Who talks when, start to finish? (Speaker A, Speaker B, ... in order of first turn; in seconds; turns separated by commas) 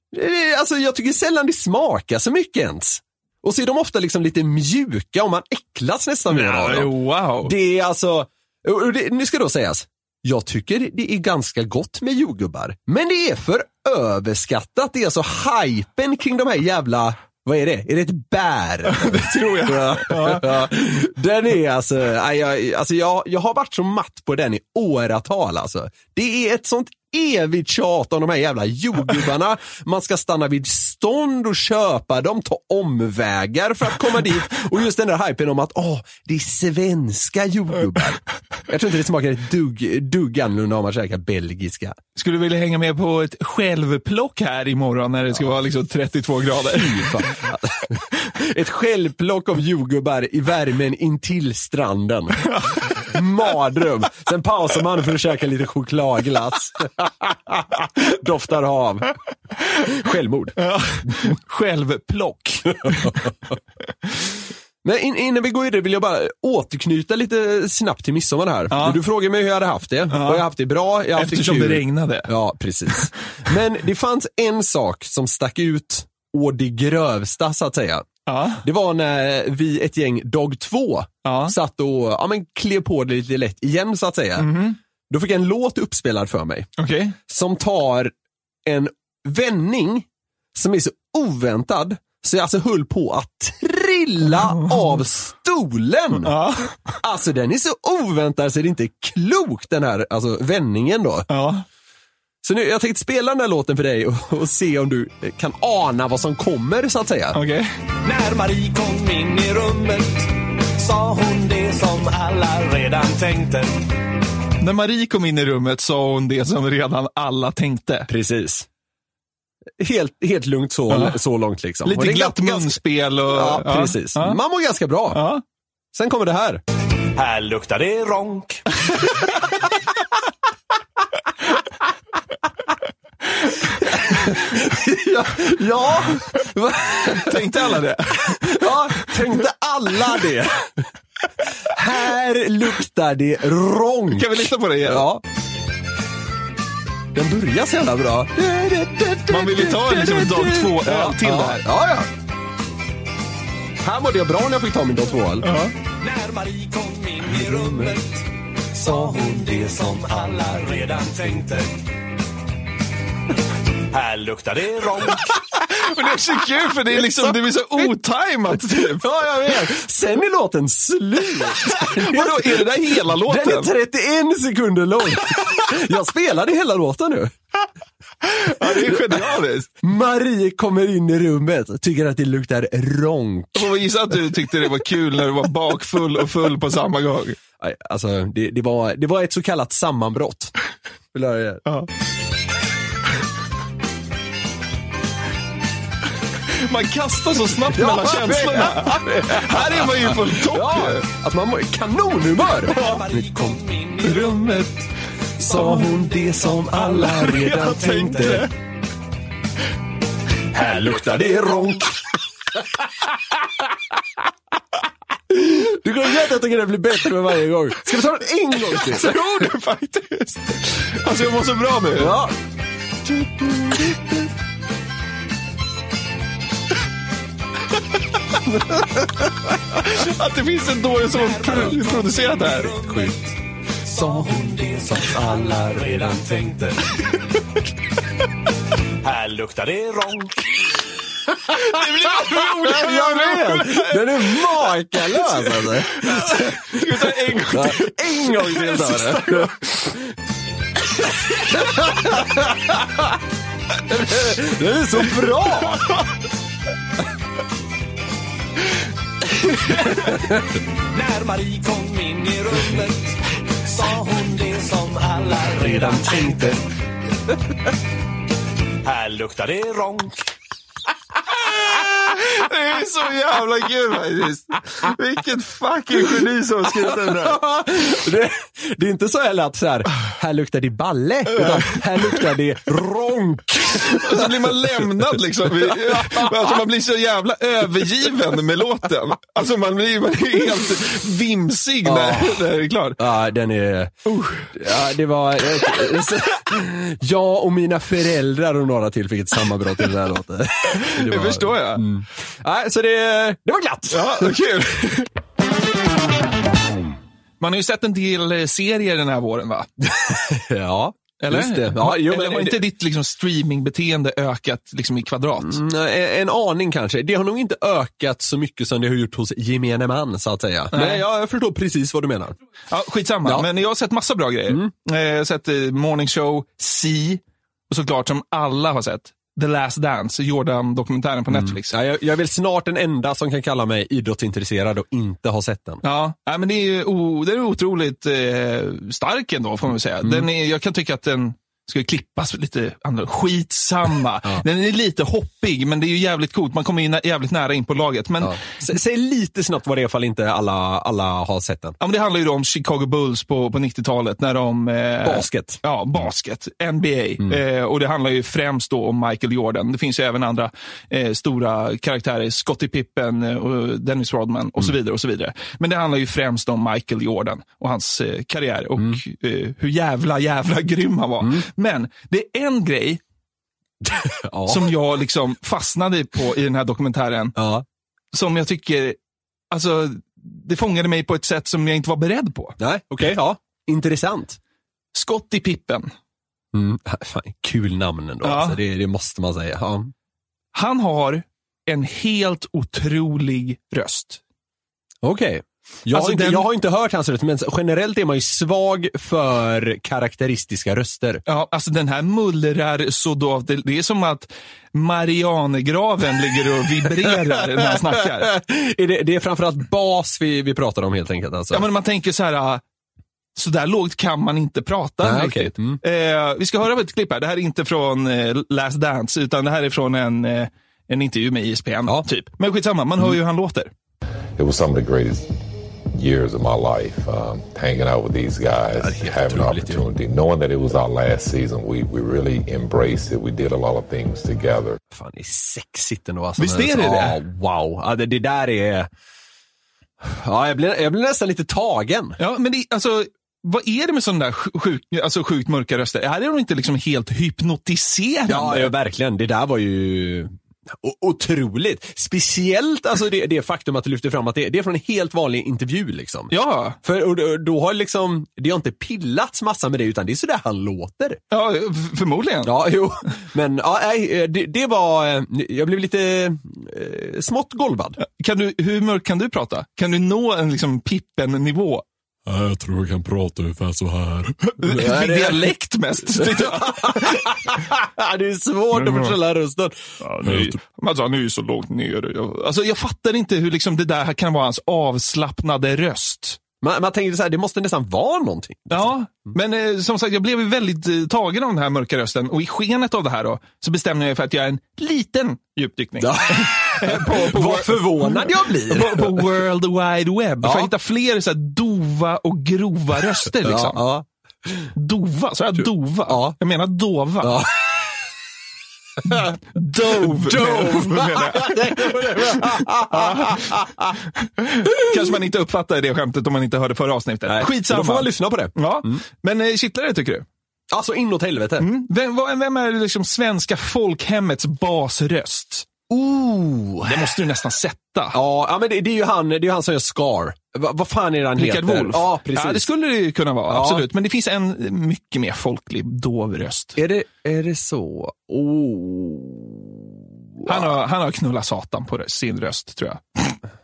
Speaker A: 0.1-42.0, Speaker B: 6.3-7.5, Speaker B: 18.9-20.7, Speaker B: 42.2-47.2, Speaker A: 46.6-59.1, Speaker A: 59.8-60.6, Speaker B: 60.6-63.2, Speaker A: 63.0-63.3, Speaker A: 64.8-78.1, Speaker B: 68.7-69.0, Speaker B: 70.1-70.5, Speaker B: 71.1-72.3, Speaker B: 78.3-78.6, Speaker A: 78.6-84.6, Speaker B: 81.2-81.5, Speaker B: 84.4-84.8, Speaker A: 85.1-86.7, Speaker B: 86.8-87.2, Speaker A: 87.3-88.1, Speaker A: 88.7-96.3, Speaker B: 94.5-94.8, Speaker B: 96.2-96.9, Speaker A: 97.0-101.3, Speaker B: 101.3-101.6, Speaker A: 102.4-107.4, Speaker B: 107.3-107.7, Speaker C: 108.0-113.9, Speaker B: 114.6-118.1, Speaker A: 118.1-118.7, Speaker A: 119.8-122.8, Speaker B: 120.9-121.2, Speaker B: 121.8-124.4, Speaker A: 123.3-125.2, Speaker B: 125.1-125.4, Speaker A: 125.9-126.6, Speaker C: 127.2-128.6, Speaker A: 133.8-140.9, Speaker B: 137.1-139.3, Speaker A: 141.7-145.2, Speaker B: 144.1-145.1, Speaker A: 147.1-152.1, Speaker B: 149.3-151.6, Speaker A: 153.8-155.5, Speaker B: 155.4-155.8, Speaker C: 155.9-161.8, Speaker A: 157.2-158.0, Speaker C: 163.9-165.3, Speaker B: 165.6-169.0, Speaker A: 168.9-177.3, Speaker B: 171.7-173.7, Speaker B: 178.3-179.7, Speaker A: 178.7-179.3, Speaker A: 179.8-183.7, Speaker B: 183.6-187.4, Speaker A: 187.6-190.5, Speaker A: 191.1-191.6, Speaker B: 196.6-201.1, Speaker A: 197.7-203.6, Speaker B: 202.7-203.0, Speaker C: 202.8-204.5, Speaker B: 204.0-204.7, Speaker A: 205.4-208.5, Speaker B: 205.5-205.9, Speaker B: 206.8-208.5, Speaker C: 210.6-211.6, Speaker A: 210.6-211.9, Speaker A: 215.3-219.5, Speaker B: 218.8-222.2, Speaker A: 221.9-222.3, Speaker A: 223.4-224.0, Speaker A: 228.5-229.1, Speaker B: 229.8-232.8, Speaker C: 231.1-233.3, Speaker A: 231.4-231.8, Speaker A: 232.8-233.1, Speaker C: 233.9-236.8, Speaker A: 234.9-236.5, Speaker C: 239.0-240.5, Speaker B: 241.6-249.6, Speaker A: 242.2-250.1, Speaker A: 251.4-253.0, Speaker A: 253.9-255.9, Speaker A: 259.9-260.4, Speaker C: 260.9-266.6, Speaker A: 265.6-266.6, Speaker C: 268.9-270.2, Speaker B: 271.5-277.4, Speaker A: 277.2-284.5, Speaker B: 283.9-293.0, Speaker A: 285.7-286.3, Speaker A: 291.9-292.5, Speaker A: 293.0-304.3, Speaker B: 294.1-294.5, Speaker B: 300.8-301.9, Speaker B: 303.9-305.1, Speaker B: 307.4-309.7, Speaker A: 309.8-312.6, Speaker B: 311.2-315.6, Speaker A: 315.4-322.4, Speaker B: 320.7-321.0, Speaker B: 322.7-331.8, Speaker A: 331.3-335.8, Speaker B: 335.8-348.4, Speaker A: 348.2-351.8, Speaker B: 351.8-373.0, Speaker A: 355.0-355.6, Speaker A: 373.8-374.7, Speaker B: 374.5-377.4, Speaker A: 377.4-377.6, Speaker B: 378.1-379.0, Speaker B: 379.5-382.6, Speaker A: 382.6-384.4, Speaker B: 384.9-385.9, Speaker A: 386.5-389.9, Speaker B: 388.2-388.6, Speaker B: 390.5-394.2, Speaker A: 395.0-401.2, Speaker B: 395.9-396.5, Speaker B: 401.3-408.3, Speaker A: 408.2-411.6, Speaker B: 411.5-412.6, Speaker B: 413.4-423.7, Speaker A: 415.0-415.8, Speaker D: 424.4-425.3, Speaker D: 425.9-434.8, Speaker A: 428.8-429.8, Speaker A: 434.9-438.9, Speaker B: 436.4-437.2, Speaker A: 440.0-442.2, Speaker B: 442.2-448.7, Speaker A: 448.3-461.2, Speaker B: 456.3-456.8, Speaker B: 461.3-462.7, Speaker A: 462.4-468.0, Speaker B: 468.0-471.9, Speaker E: 472.3-474.4, Speaker B: 474.6-477.3, Speaker A: 474.7-475.5, Speaker A: 476.1-479.7, Speaker B: 478.7-479.2, Speaker B: 480.1-486.4, Speaker E: 480.2-480.6, Speaker A: 486.6-488.9, Speaker B: 488.7-503.8, Speaker A: 496.0-499.3, Speaker A: 500.4-500.7, Speaker A: 503.4-504.7, Speaker B: 504.8-507.5, Speaker A: 506.1-506.4, Speaker A: 507.2-507.9, Speaker A: 509.1-514.0, Speaker B: 509.6-513.5, Speaker B: 514.4-520.3, Speaker A: 517.3-519.0, Speaker A: 520.7-521.7, Speaker B: 521.6-525.7, Speaker A: 525.9-527.0, Speaker B: 526.9-528.2, Speaker A: 528.1-532.7, Speaker B: 531.4-536.8, Speaker A: 533.5-533.9, Speaker A: 536.8-539.8, Speaker A: 540.4-540.7, Speaker B: 540.5-543.4